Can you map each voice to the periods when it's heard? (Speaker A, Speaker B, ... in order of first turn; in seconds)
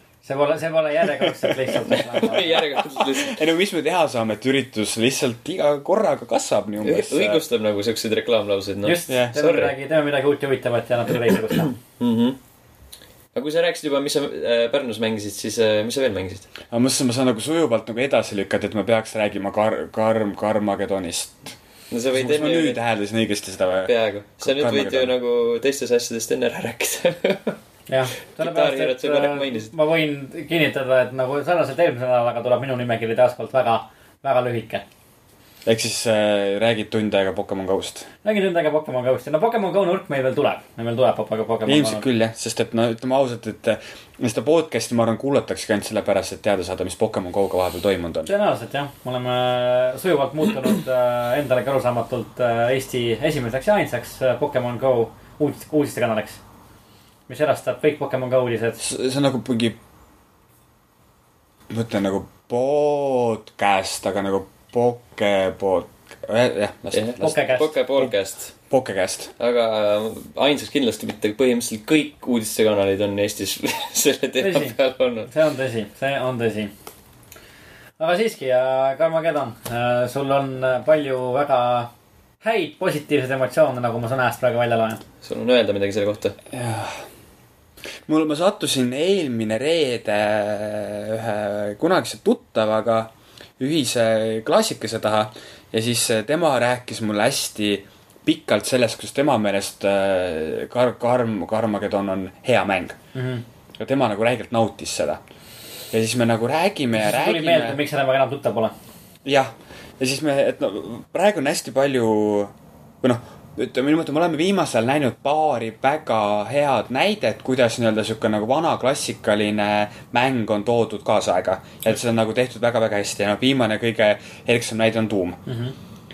Speaker A: 0.2-2.6, 8.8-11.7, 27.9-34.8, 38.2-42.0, 48.2-56.4, 57.3-58.8, 67.2-67.7, 74.4-74.7, 75.2-76.7, 78.0-81.9, 82.4-85.0, 103.1-103.4, 107.0-108.7, 125.5-125.7
Speaker B: 1.9-3.4, 6.8-9.7, 12.0-12.4, 13.3-16.5, 21.9-22.8, 23.9-27.6, 28.3-29.7, 66.9-68.5, 69.4-75.3, 85.2-86.4
Speaker C: 2.6-7.4, 9.1-9.3, 16.7-21.6, 22.1-25.1, 35.6-38.1, 41.6-48.3, 58.8-59.8, 61.7-67.4, 68.7-69.3, 86.5-87.0, 88.1-103.0, 103.8-105.2, 105.9-107.8, 109.2-125.4